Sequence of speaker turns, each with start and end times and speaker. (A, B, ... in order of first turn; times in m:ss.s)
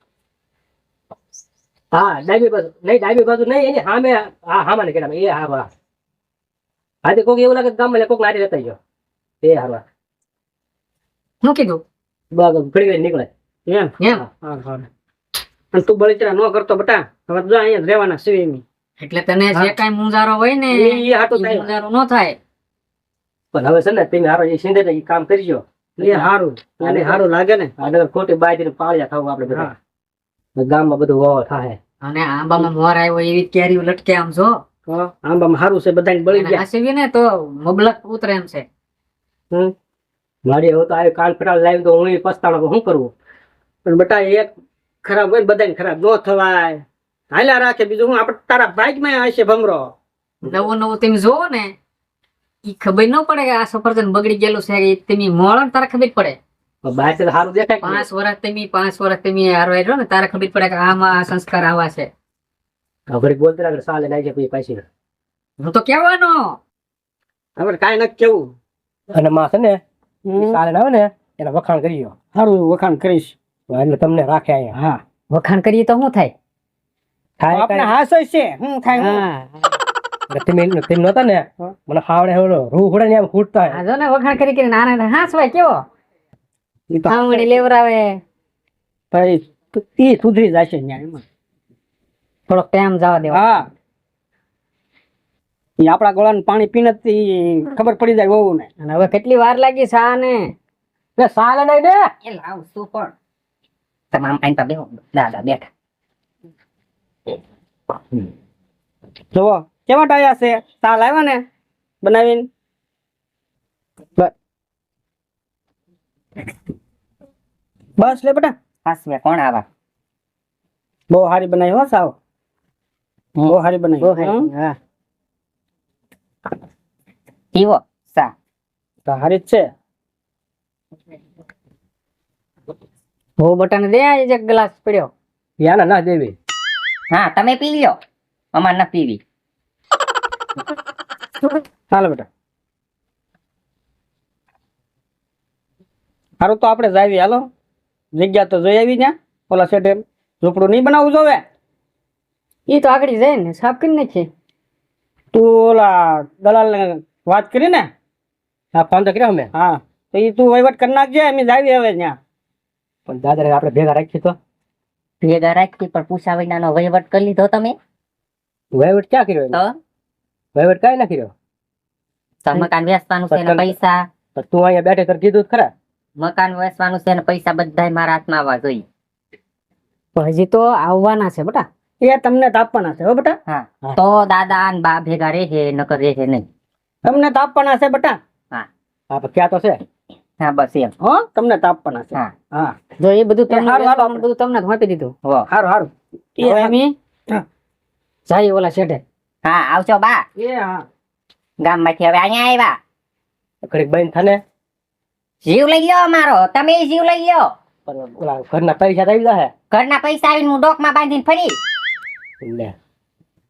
0:01.9-0:05.7 A
0:07.0-0:08.8 A
0:09.4-0:09.8 A
0:11.4-0:11.8 B
0:12.3-0:13.3 A
0:13.7-0:14.9 C
0:14.0-0:14.2 B
0:15.7-0:18.6 C
0:19.0-0:22.4 B
0:20.7-0:21.7 C
0:23.5-0:26.3 A
0:26.0-0:27.7 C
0:26.8-0:27.2 A
0:27.8-0:29.7 A
0:30.6-0:31.8 A
0:32.0-0:34.6 B
0:34.9-0:36.6 C
0:36.3-0:38.7 B
0:40.4-0:43.1 A
0:43.8-0:44.5 C
0:45.0-0:49.9 C
0:50.4-0:51.7 B
0:52.6-0:56.4 B
0:56.8-0:58.1 A
0:57.8-1:02.1 B
1:03.1-1:04.8 A
1:05.6-1:06.6 B
1:07.6-1:08.5 C
1:09.1-1:09.8 A
1:10.2-1:10.6 C
1:10.4-1:12.1 A
1:12.3-1:13.4 C
1:13.7-1:14.8 A
1:14.8-1:15.0 C
1:15.3-1:16.3 B
1:17.4-1:17.9 A
1:17.5-1:19.3 C
1:19.0-1:19.7 B
1:20.3-1:23.8 A
1:23.7-1:25.8 B
1:26.9-1:27.5 C
1:27.1-1:28.2 B
1:29.1-1:31.2 C
1:32.5-1:33.4 B
1:33.3-1:33.7 C
1:35.8-1:38.7 C
1:38.8-1:40.5 B
1:41.2-1:42.0 A
1:42.2-1:43.1 D
1:44.1-1:45.7 D
1:49.3-1:51.4 C
1:52.0-1:52.5 C
1:58.0-1:58.6 C
1:58.8-1:59.6 D
2:01.1-2:02.1 C
2:03.4-2:04.4 C
2:04.0-2:04.8 B
2:07.6-2:08.3 D
2:09.1-2:09.7 C
2:13.4-2:15.1 B
2:15.6-2:16.4 A
2:17.1-2:18.0 D
2:18.6-2:19.2 D
2:21.9-2:22.3 C
2:26.4-2:27.5 C
2:28.2-2:31.4 C
2:32.7-2:34.3 B
2:35.3-2:37.9 C
2:38.7-2:39.5 A
2:39.5-2:42.2 C
2:43.1-2:44.4 A
2:45.2-2:47.8 D
2:48.7-2:49.6 A
2:50.6-2:51.3 A
2:52.4-2:54.1 D
2:53.3-2:53.7 A
2:54.4-2:55.7 A
2:56.2-2:58.8 D
3:00.2-3:01.7 B
3:02.0-3:04.0 C
3:03.5-3:06.5 D
3:07.0-3:08.2 C
3:09.1-3:09.8 A
3:10.4-3:10.9 D
3:11.0-3:12.8 C
3:13.0-3:15.1 B
3:13.5-3:14.2 C
3:15.5-3:16.7 C
3:16.4-3:16.9 B
3:18.3-3:19.0 B
3:19.4-3:20.2 D
3:20.4-3:20.8 C
3:21.6-3:22.8 D
3:23.6-3:24.4 A
3:25.4-3:27.5 D
3:27.9-3:29.5 A
3:29.7-3:31.6 D
3:32.4-3:32.7 A